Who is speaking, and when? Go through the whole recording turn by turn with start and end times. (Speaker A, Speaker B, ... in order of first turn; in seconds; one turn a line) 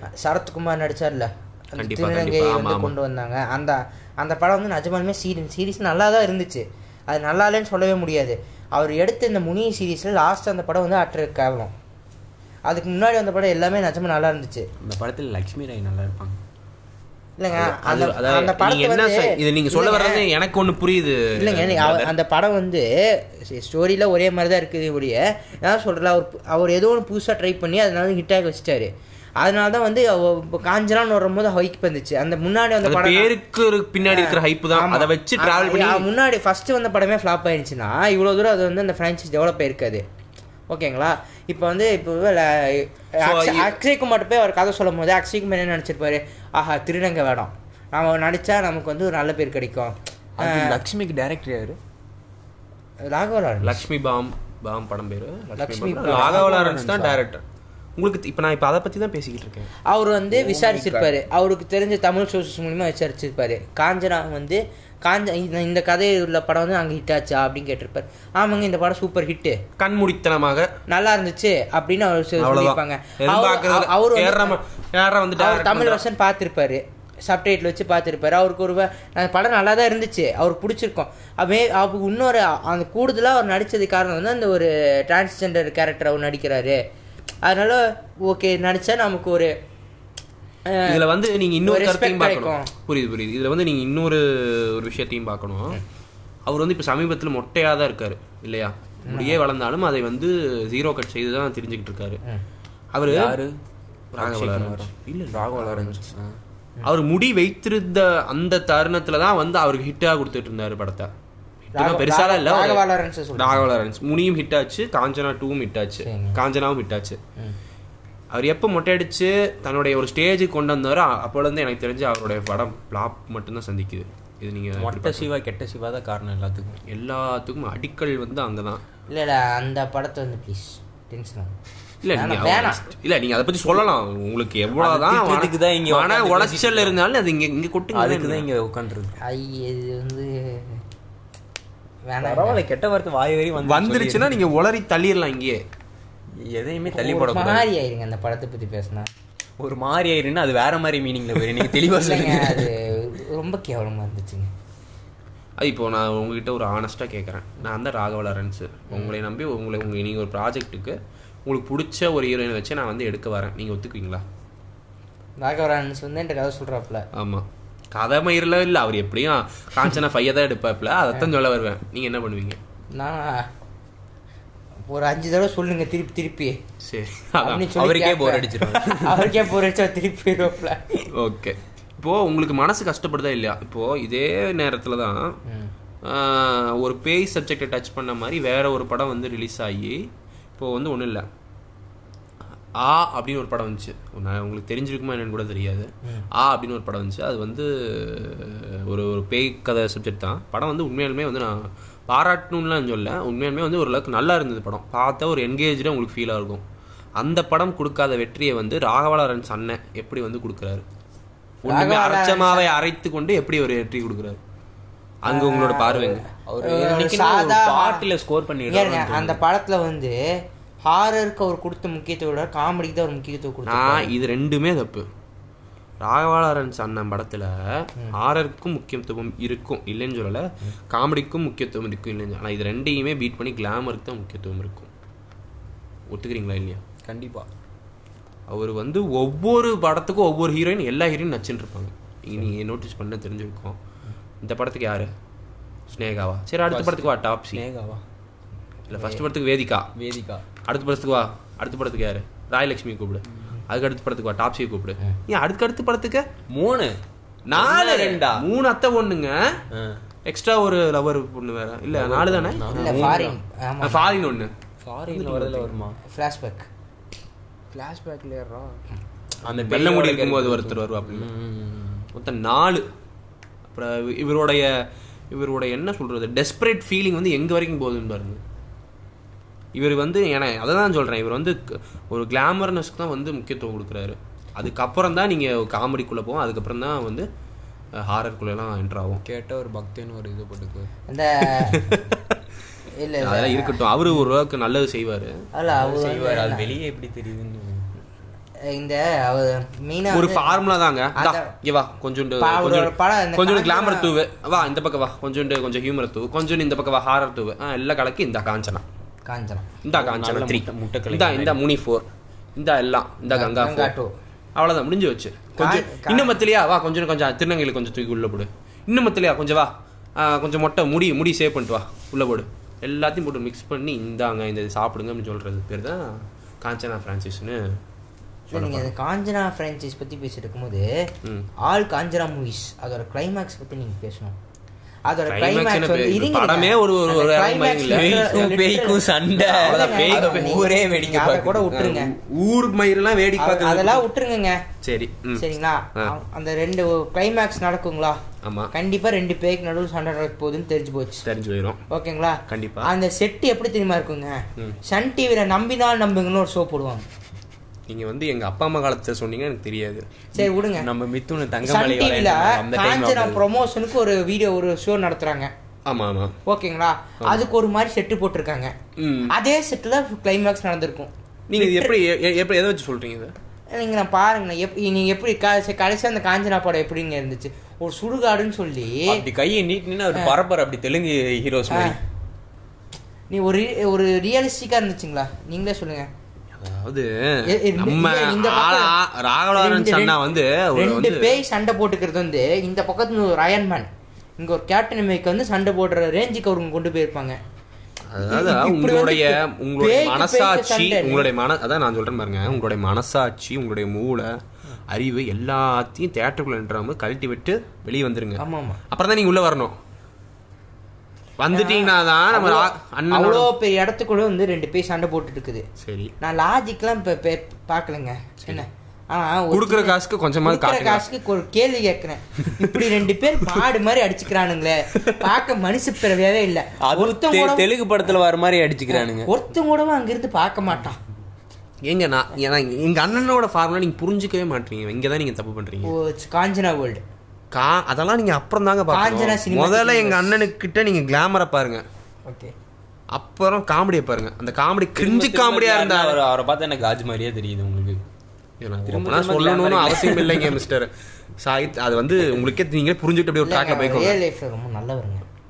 Speaker A: 0.2-11.7
Speaker B: 1.8-2.9
Speaker A: 12.7-14.7
Speaker C: 14.8-16.4
Speaker A: 17.4-20.3
Speaker B: 17.5-22.1
Speaker A: 21.4-33.3
Speaker B: 32.8-36.1
Speaker A: 34.0-40.0
Speaker A: 40.7-50.8
Speaker B: 43.2-43.8
Speaker C: 50.4-51.8
Speaker A: 53.1-53.9
Speaker B: 53.6-57.4
Speaker A: 55.5-56.5
Speaker C: 56.0-57.2
Speaker B: 58.0-59.7
Speaker A: 59.9-69.6
Speaker C: 60.3-61.2
Speaker B: 69.8-70.7
Speaker A: 70.9-74.6
Speaker B: 72.4-76.0
Speaker A: 75.4-86.8
Speaker A: 87.5-89.5
Speaker A: 90.7-91.0
Speaker B: 90.8-95.8
Speaker A: 91.7-92.7
Speaker B: 96.5-102.2
Speaker A: 99.1-99.4
Speaker B: 102.9-103.4
Speaker C: 103.1-103.6
Speaker B: 104.1-106.1
Speaker C: 104.2-106.3
Speaker B: 106.9-111.1
Speaker B: 111.7-112.8
Speaker A: 111.8-113.7
Speaker B: 113.4-117.2
Speaker A: 116.0-116.4
Speaker B: 118.3-125.3
Speaker C: 124.8-126.8
Speaker B: 126.9-128.8
Speaker A: 129.1-131.5
Speaker B: 132.0-138.5
Speaker A: 132.1-132.9
Speaker C: 134.8-137.0
Speaker C: 137.9-139.2
Speaker A: 139.2-140.8
Speaker A: 142.1-142.6
Speaker C: 142.2-144.4
Speaker B: 143.6-145.6
Speaker C: 146.4-147.7
Speaker A: 146.9-149.1
Speaker C: 149.6-152.7
Speaker A: 151.9-154.5
Speaker B: 155.6-164.2
Speaker A: 165.4-167.1
Speaker B: 167.2-172.6
Speaker A: 172.9-173.5
Speaker A: 174.9-176.6
Speaker B: 176.8-177.7
Speaker A: 177.4-181.0
Speaker C: 177.7-179.3
Speaker B: 181.2-185.3
Speaker B: 186.1-190.1
Speaker B: 190.6-191.3
Speaker B: 192.8-206.6
Speaker B: 207.2-210.8
Speaker B: 211.6-214.4
Speaker A: 211.7-212.7
Speaker B: 215.2-216.2
Speaker A: 215.3-218.1
Speaker C: 216.5-219.4
Speaker A: 218.7-220.2
Speaker A: 220.9-224.1
Speaker B: 223.7-225.1
Speaker B: 226.0-227.5
Speaker B: 228.1-234.9
Speaker B: 236.1-236.8
Speaker C: 237.1-237.5
Speaker B: 238.5-243.8
Speaker B: 244.4-245.1
Speaker B: 245.9-247.6
Speaker C: 246.7-248.0
Speaker C: 248.9-249.2
Speaker B: 248.9-249.9
Speaker C: 249.9-250.4
Speaker B: 250.7-256.2
Speaker C: 256.5-257.0
Speaker B: 257.5-259.4
Speaker C: 257.5-258.4
Speaker C: 259.7-260.0
Speaker B: 260.3-263.3
Speaker C: 261.9-263.4
Speaker A: 262.7-264.1
Speaker B: 263.8-264.5
Speaker C: 264.8-266.0
Speaker B: 265.1-265.8
Speaker A: 266.1-266.7
Speaker C: 267.7-268.7
Speaker C: 269.4-272.1
Speaker B: 269.5-271.3
Speaker B: 272.1-272.9
Speaker B: 273.7-274.7
Speaker B: 275.3-278.4
Speaker B: 279.8-287.3
Speaker B: 287.9-289.2
Speaker C: 289.2-290.9
Speaker A: 291.1-291.8
Speaker B: 291.7-292.4
Speaker A: 293.0-293.8
Speaker B: 293.2-295.4
Speaker A: 295.5-296.8
Speaker C: 295.7-297.9
Speaker A: 298.7-300.6
Speaker B: 300.1-308.8
Speaker A: 301.2-301.5
Speaker A: 302.4-304.1
Speaker A: 309.3-309.7
Speaker B: 309.8-313.9
Speaker C: 310.0-311.6
Speaker A: 313.3-314.1
Speaker B: 314.6-327.6
Speaker A: 315.6-316.4
Speaker A: 328.5-330.9
Speaker B: 328.5-328.9
Speaker A: 331.6-334.4
Speaker A: 335.1-342.1
Speaker B: 335.3-338.5
Speaker C: 337.9-341.7
Speaker B: 339.5-340.6
Speaker B: 341.7-344.1
Speaker A: 343.4-344.6
Speaker B: 344.8-345.4
Speaker A: 345.4-348.2
Speaker B: 348.4-348.7
Speaker A: 348.7-351.2
Speaker B: 351.2-351.8
Speaker A: 351.9-357.1
Speaker B: 352.5-352.9
Speaker B: 357.9-360.1
Speaker A: 360.3-360.9
Speaker C: 360.4-363.5
Speaker A: 361.6-365.5
Speaker B: 365.9-366.3
Speaker A: 366.5-368.7
Speaker B: 369.0-369.3
Speaker A: 369.3-371.9
Speaker B: 371.5-373.3
Speaker A: 373.7-379.2
Speaker C: 379.1-382.0
Speaker A: 381.7-382.0
Speaker A: 383.3-386.1
Speaker B: 386.6-391.4
Speaker A: 387.5-388.9
Speaker A: 389.6-390.2
Speaker A: 390.8-393.9
Speaker A: 394.4-397.4
Speaker B: 398.1-404.3
Speaker A: 398.3-401.3
Speaker B: 404.9-409.8
Speaker A: 408.4-408.8
Speaker B: 411.4-413.5
Speaker A: 411.5-415.6
Speaker B: 415.8-416.1
Speaker A: 416.2-427.7
Speaker B: 419.5-421.1
Speaker B: 425.0-425.3
Speaker C: 426.8-429.3
Speaker A: 428.9-431.0
Speaker B: 431.9-435.9
Speaker A: 435.9-437.0
Speaker B: 437.5-441.9
Speaker A: 438.9-440.5
Speaker B: 443.1-446.2
Speaker C: 445.0-448.0
Speaker B: 448.6-454.2
Speaker C: 448.9-450.6
Speaker A: 453.4-455.2